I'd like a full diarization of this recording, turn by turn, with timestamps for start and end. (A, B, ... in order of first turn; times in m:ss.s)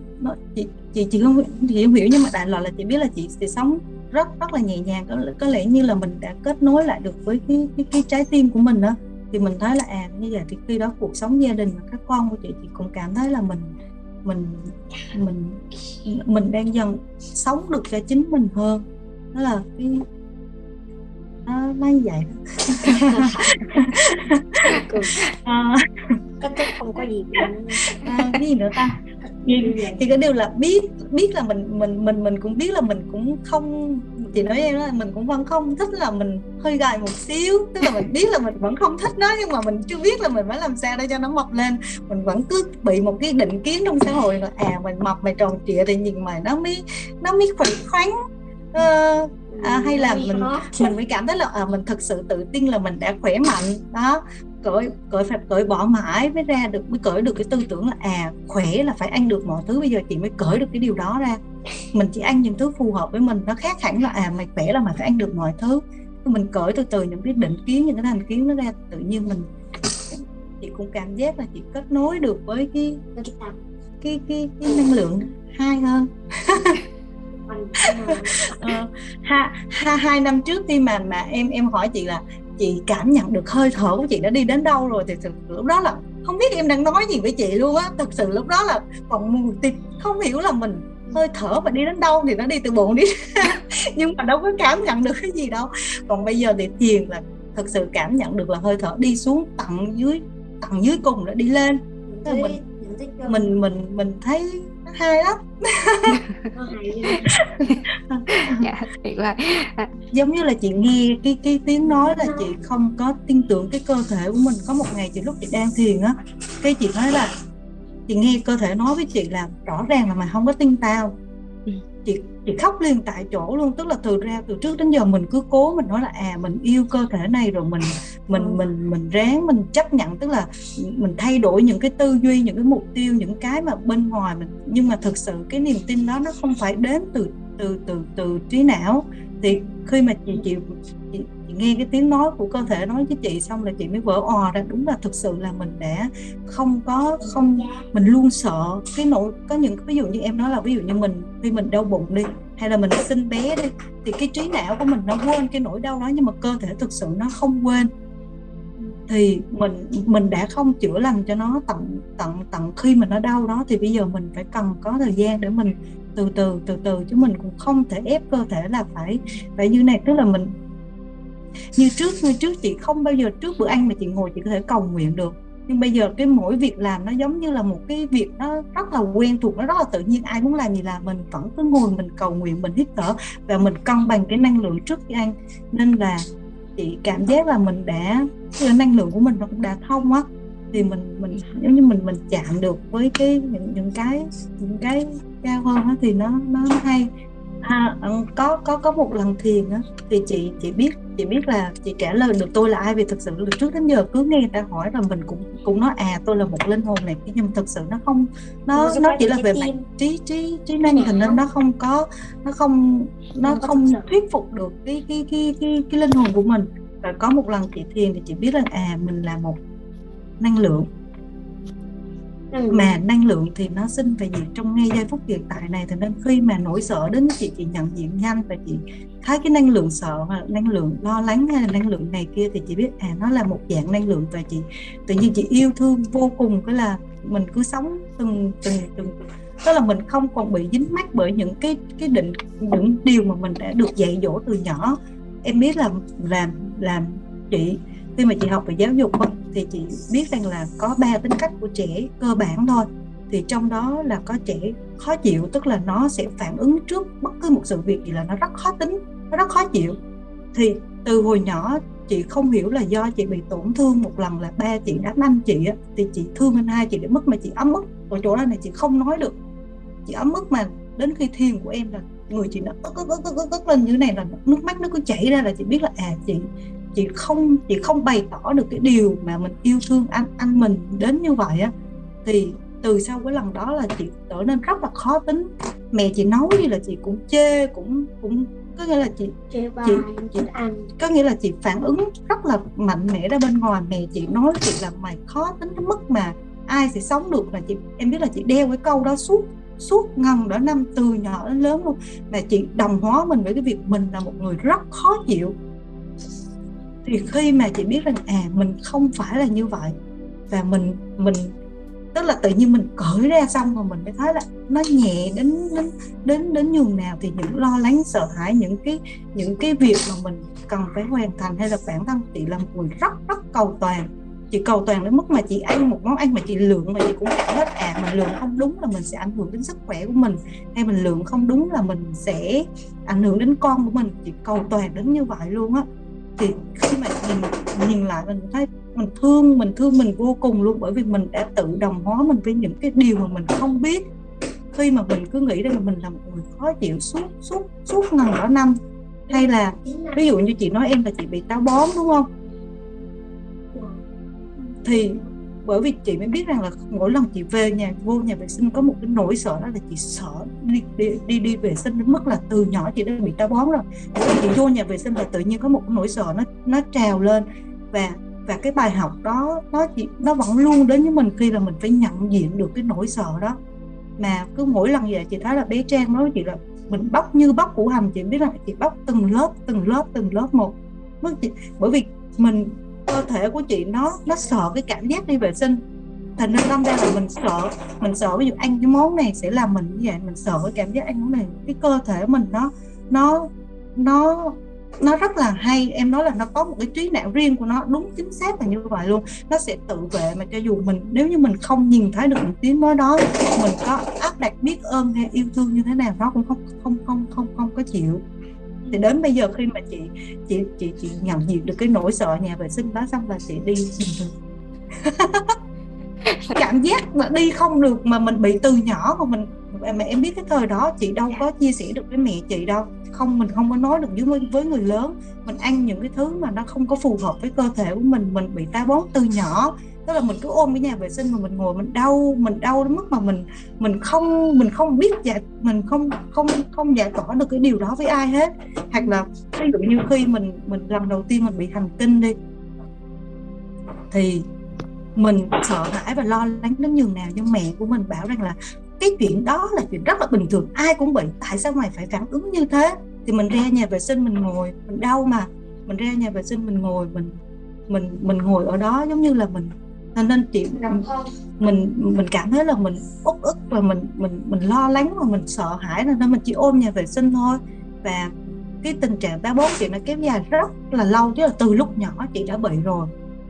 0:00.2-0:20.0 A
0:21.4-0:25.8 A
0:22.9-0:23.6 B
0:24.7-0:25.2 B
0:26.4-0:27.8 B
0:27.9-0:48.1 A
0:29.6-0:30.0 B
0:48.7-1:01.4 A
0:49.5-0:50.9 B
1:01.9-1:09.5 A
1:10.1-1:13.0 A
1:13.1-1:13.6 B
1:14.0-1:16.8 A
1:17.5-1:18.6 B
1:17.9-1:42.6 A
1:42.1-1:43.4 B
1:43.3-1:46.2 A
1:46.5-1:47.3 B
1:47.4-1:48.7 A
1:47.7-1:49.9 C
1:50.1-1:57.3 A
1:58.1-2:01.1 A
2:02.0-2:37.9 A
2:39.1-2:50.5 A
2:51.8-3:06.2 A
3:06.8-3:17.1 A
3:17.6-3:39.6 A
3:28.7-3:29.8 B
3:30.9-3:31.3 B
3:33.4-3:34.1 B
3:40.4-3:40.9 A
3:42.5-3:42.9 B
3:42.7-4:20.0 A
4:20.5-4:29.4 A
4:30.0-4:41.7 A
4:42.2-5:05.5 A
4:49.5-4:50.9 B
5:07.0-5:10.0 A
5:10.5-5:11.5 A
5:12.1-5:35.8 A
5:36.4-5:44.0 A
5:44.7-5:48.8 A
5:49.3-5:52.3 A
5:54.8-6:13.6 A
6:14.2-6:25.8 A
6:26.4-6:48.2 A
6:48.9-6:54.3 A
6:55.0-6:55.5 A
6:56.2-6:56.6 C
6:56.6-7:22.4 A
7:24.1-7:24.4 A
7:25.2-7:37.4 A
7:37.9-7:53.1 A